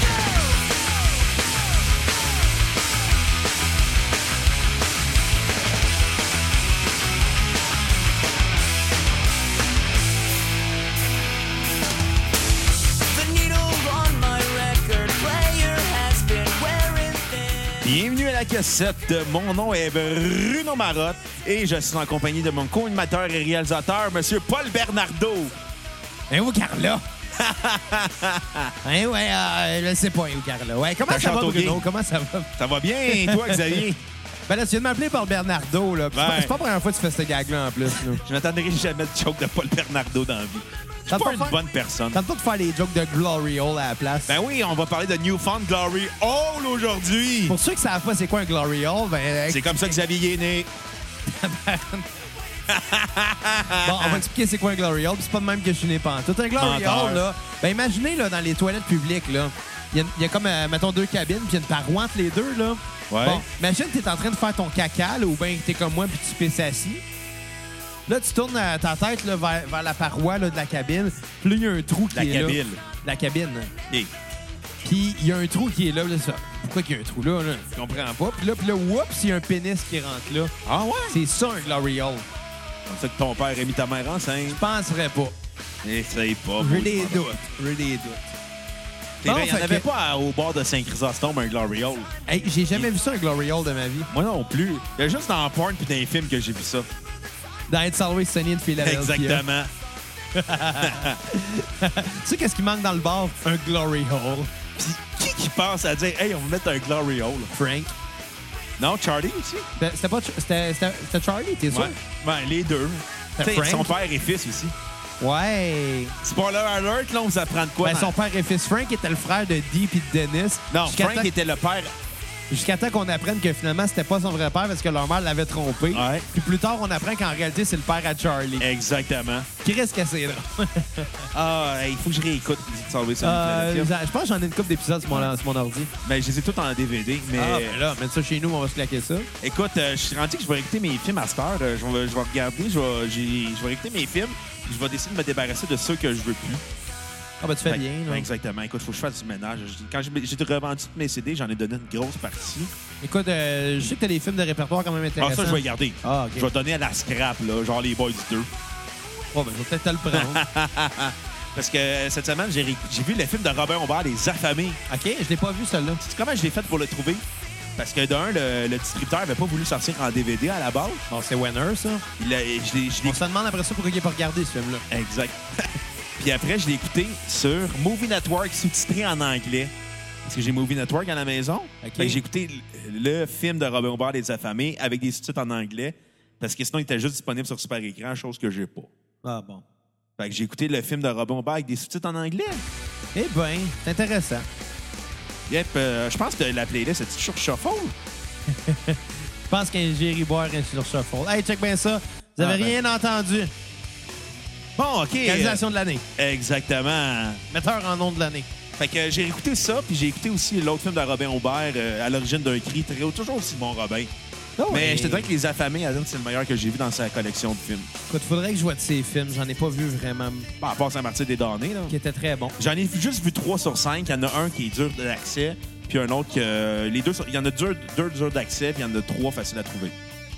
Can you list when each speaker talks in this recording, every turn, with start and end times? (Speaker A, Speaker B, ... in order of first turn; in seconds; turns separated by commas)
Speaker A: 13.1-17.9, Speaker B: 17.8-25.5, Speaker C: 26.3-27.0, Speaker B: 27.4-28.7, Speaker C: 28.8-32.5, Speaker B: 31.1-31.8, Speaker B: 32.6-34.0, Speaker C: 33.1-33.8, Speaker C: 34.5-38.2, Speaker B: 36.1-36.5, Speaker B: 37.9-42.2, Speaker C: 41.1-41.5, Speaker C: 42.1-44.3, Speaker B: 44.3-47.6, Speaker C: 47.5-49.7, Speaker B: 49.5-50.7, Speaker C: 51.2-52.1, Speaker B: 52.7-54.2, Speaker C: 53.8-67.0, Speaker B: 56.6-57.2, Speaker B: 63.1-63.4, Speaker C: 68.1-73.7, Speaker B: 72.1-72.8, Speaker C: 74.8-80.5, Speaker B: 80.6-81.2, Speaker C: 81.1-82.2, Speaker B: 82.9-84.6, Speaker C: 84.5-85.3, Speaker B: 85.8-87.3, Speaker C: 86.6-88.3, Speaker B: 89.2-92.1, Speaker C: 89.2-89.8, Speaker C: 92.3-94.1, Speaker B: 94.1-96.9, Speaker C: 97.7-99.4, Speaker B: 98.8-99.7, Speaker C: 100.3-104.5, Speaker B: 100.8-101.2, Speaker B: 104.8-107.5, Speaker C: 107.5-107.9, Speaker B: 108.8-109.7, Speaker C: 109.8-112.0, Speaker B: 111.7-114.7, Speaker C: 113.4-113.9, Speaker C: 115.2-116.1, Speaker B: 116.2-118.1, Speaker C: 117.8-121.3, Speaker B: 120.7-121.9, Speaker C: 122.5-128.6, Speaker B: 125.9-126.2, Speaker B: 128.6-129.5, Speaker C: 129.6-131.3, Speaker B: 131.3-133.9, Speaker C: 133.2-135.9, Speaker B: 136.0-137.8, Speaker C: 137.3-139.3, Speaker B: 139.4-146.6, Speaker C: 147.4-148.3, Speaker B: 147.7-152.7, Speaker C: 153.0-156.5, Speaker B: 155.2-158.5, Speaker C: 159.3-160.4, Speaker B: 160.1-164.8, Speaker C: 164.9-166.0, Speaker B: 166.0-167.2, Speaker B: 167.8-171.1, Speaker C: 171.1-172.0, Speaker B: 172.2-173.2, Speaker C: 173.0-174.8, Speaker B: 174.9-179.7, Speaker B: 180.2-188.9, Speaker C: 181.8-182.2, Speaker C: 189.2-189.6, Speaker B: 190.2-192.6, Speaker C: 193.1-194.4, Speaker B: 195.5-197.9, Speaker C: 198.5-203.5, Speaker B: 202.4-202.8, Speaker B: 204.8-205.6, Speaker C: 205.2-206.0, Speaker B: 206.2-207.4, Speaker C: 207.5-208.5, Speaker B: 208.8-214.1, Speaker C: 214.6-215.3, Speaker B: 214.7-217.9, Speaker C: 218.1-220.5, Speaker B: 220.6-221.9, Speaker C: 221.9-222.6, Speaker B: 222.6-229.9